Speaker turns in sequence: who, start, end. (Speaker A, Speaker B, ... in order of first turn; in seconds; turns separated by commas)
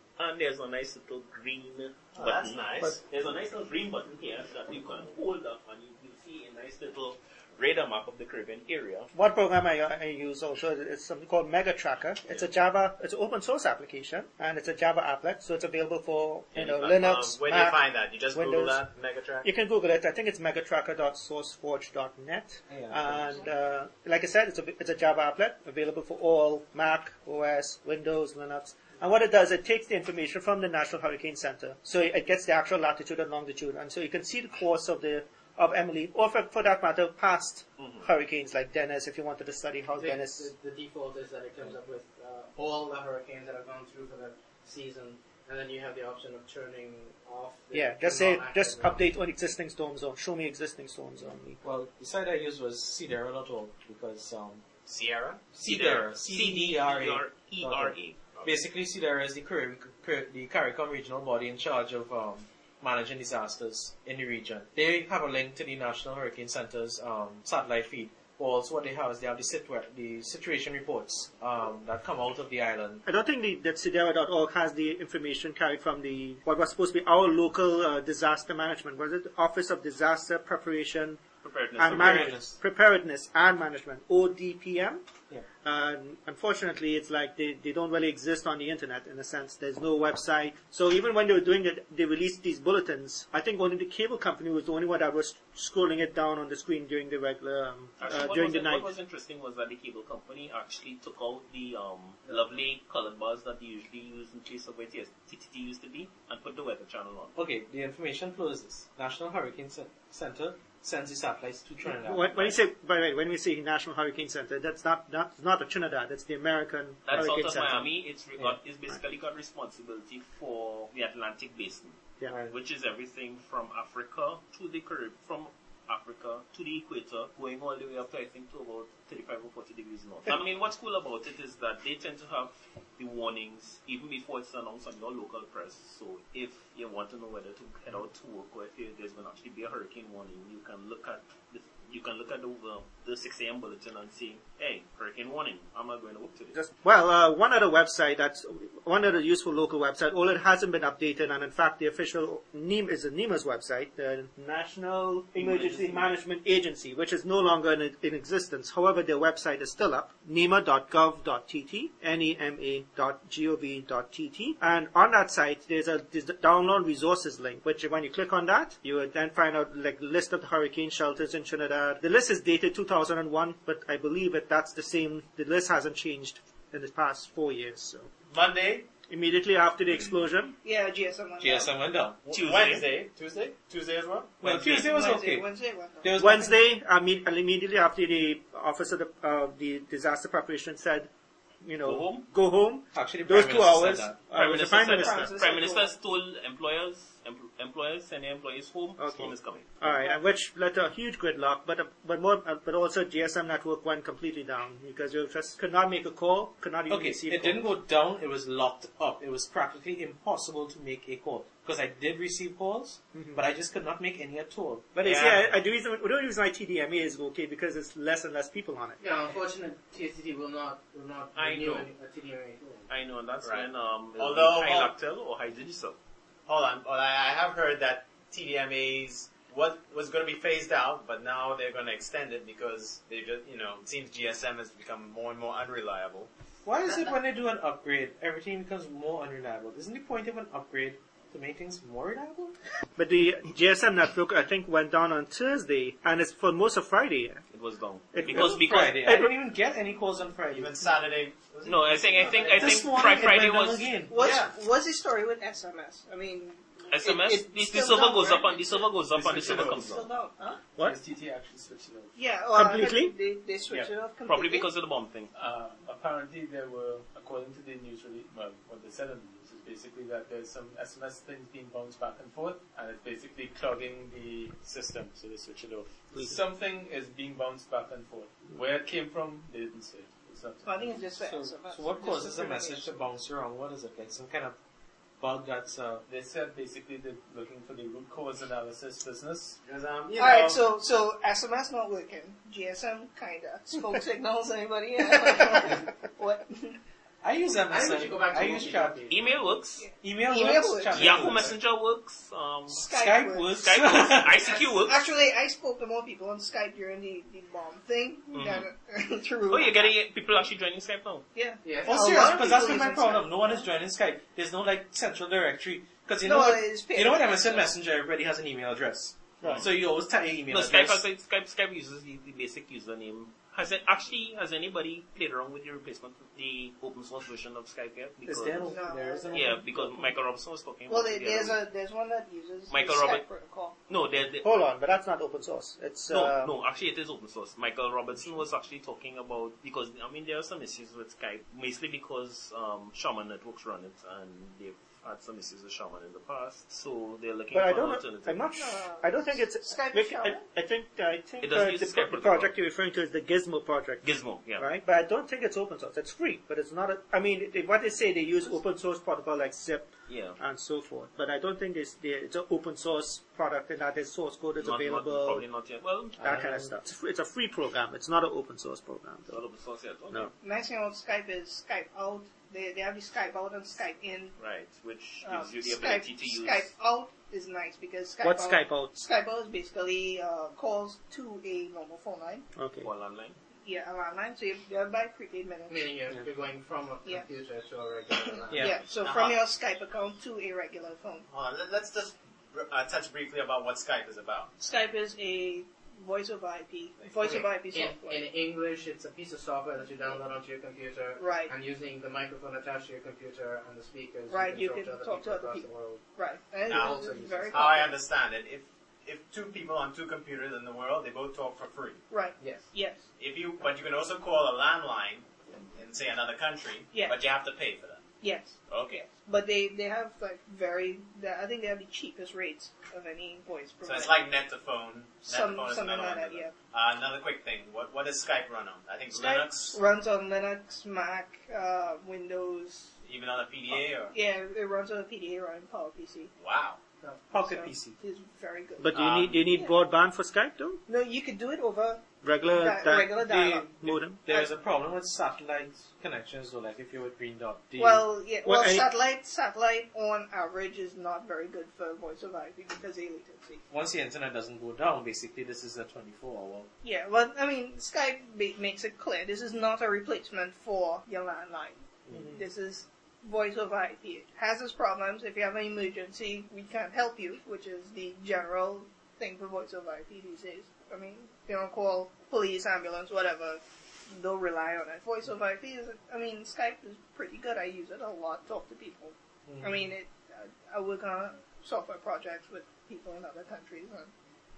Speaker A: 0.2-9.1, Speaker B: 2.2-3.0, Speaker C: 9.1-18.8, Speaker B: 16.6-19.5, Speaker C: 19.4-40.5, Speaker D: 22.7-23.4, Speaker A: 37.8-38.1, Speaker E: 40.0-49.1, Speaker C: 47.7-51.6, Speaker D: 51.6-54.6, Speaker B: 54.9-55.5, Speaker D: 55.5-73.0, Speaker A: 55.6-58.2, Speaker B: 58.4-58.6, Speaker C: 73.1-81.2, Speaker A: 81.4-82.4, Speaker C: 81.8-85.0, Speaker D: 81.8-82.6, Speaker C: 85.6-98.9, Speaker A: 98.0-107.3, Speaker D: 107.4-112.6, Speaker C: 111.8-117.9, Speaker A: 117.1-146.6, Speaker C: 146.5-178.1, Speaker A: 155.3-156.2, Speaker B: 178.3-178.9, Speaker C: 179.1-180.6, Speaker F: 180.6-181.7, Speaker D: 181.4-182.2, Speaker A: 182.3-182.9, Speaker B: 182.3-184.5, Speaker D: 184.4-185.5, Speaker F: 184.5-186.2, Speaker D: 186.0-186.6, Speaker C: 186.2-191.1, Speaker C: 191.6-195.3, Speaker A: 191.8-192.3, Speaker D: 192.9-194.2, Speaker A: 194.3-199.8, Speaker F: 194.8-195.9, Speaker C: 199.0-207.7, Speaker F: 199.9-200.2, Speaker D: 206.9-215.6, Speaker C: 213.1-213.4, Speaker C: 214.9-219.0, Speaker E: 219.0-222.9, Speaker A: 221.3-221.9, Speaker A: 222.9-226.0, Speaker B: 223.4-224.9, Speaker B: 226.5-236.3, Speaker D: 236.7-242.6, Speaker C: 243.0-247.4, Speaker A: 247.5-249.0, Speaker C: 248.1-249.3, Speaker D: 248.2-250.8, Speaker B: 250.5-252.7, Speaker A: 251.7-253.9, Speaker D: 252.5-254.2, Speaker F: 254.1-260.6, Speaker B: 254.1-254.5, Speaker A: 256.9-260.1, Speaker G: 259.1-259.9, Speaker G: 260.8-262.1, Speaker F: 262.2-264.7, Speaker C: 262.5-263.1, Speaker A: 264.3-265.3, Speaker G: 265.4-281.1, Speaker F: 280.6-283.0, Speaker D: 281.2-284.6, Speaker D: 285.2-286.1, Speaker G: 286.1-289.6, Speaker B: 289.6-290.6, Speaker F: 290.1-296.8, Speaker D: 297.2-299.1, Speaker E: 297.7-299.4, Speaker A: 299.1-299.9, Speaker F: 299.8-301.3, Speaker D: 300.0-301.6, Speaker A: 300.9-302.8, Speaker D: 302.7-304.4, Speaker F: 302.8-303.6, Speaker A: 303.6-305.0, Speaker F: 304.5-309.9, Speaker A: 308.3-308.7, Speaker A: 309.5-311.3, Speaker F: 311.4-313.7, Speaker E: 311.6-312.4, Speaker D: 311.9-321.0, Speaker F: 316.2-317.7, Speaker A: 319.4-319.7, Speaker A: 320.5-328.8, Speaker D: 328.3-330.1, Speaker F: 328.6-329.4, Speaker A: 329.3-331.6, Speaker F: 330.9-333.8, Speaker A: 332.7-333.3, Speaker A: 333.9-334.7, Speaker C: 334.4-336.6, Speaker A: 336.1-348.4, Speaker C: 347.5-354.0, Speaker F: 348.6-350.4, Speaker A: 351.4-352.6, Speaker A: 354.0-354.7, Speaker C: 354.6-365.5, Speaker A: 360.1-360.4, Speaker A: 364.6-366.6, Speaker C: 366.2-369.4, Speaker A: 369.3-370.3, Speaker F: 370.4-374.4, Speaker A: 374.4-376.7, Speaker F: 375.2-382.5, Speaker C: 378.2-378.9, Speaker C: 382.6-382.9, Speaker A: 382.8-383.4, Speaker F: 383.6-385.9, Speaker E: 385.7-388.8, Speaker F: 388.2-391.3, Speaker D: 388.5-388.8, Speaker B: 389.0-389.4, Speaker B: 391.3-394.5, Speaker F: 394.6-398.2, Speaker B: 397.0-397.4, Speaker E: 397.2-406.1, Speaker F: 401.2-401.5, Speaker F: 404.3-408.0, Speaker E: 406.7-407.9, Speaker B: 406.7-412.0, Speaker F: 412.1-413.1, Speaker E: 412.4-412.7, Speaker B: 413.2-418.1, Speaker F: 416.9-417.2, Speaker F: 418.2-424.3, Speaker B: 418.7-419.1, Speaker B: 423.8-429.8, Speaker F: 425.2-426.6, Speaker F: 429.1-432.9, Speaker B: 433.0-434.1, Speaker F: 433.7-436.3, Speaker B: 436.4-436.8, Speaker D: 437.3-438.0, Speaker F: 437.4-439.8, Speaker C: 438.8-440.8, Speaker B: 438.9-439.4, Speaker F: 440.9-444.5, Speaker C: 442.2-444.2, Speaker D: 443.3-448.1, Speaker F: 447.8-453.6, Speaker C: 448.4-448.9, Speaker D: 453.7-456.7, Speaker F: 456.8-484.1, Speaker C: 462.1-462.4, Speaker D: 479.5-479.9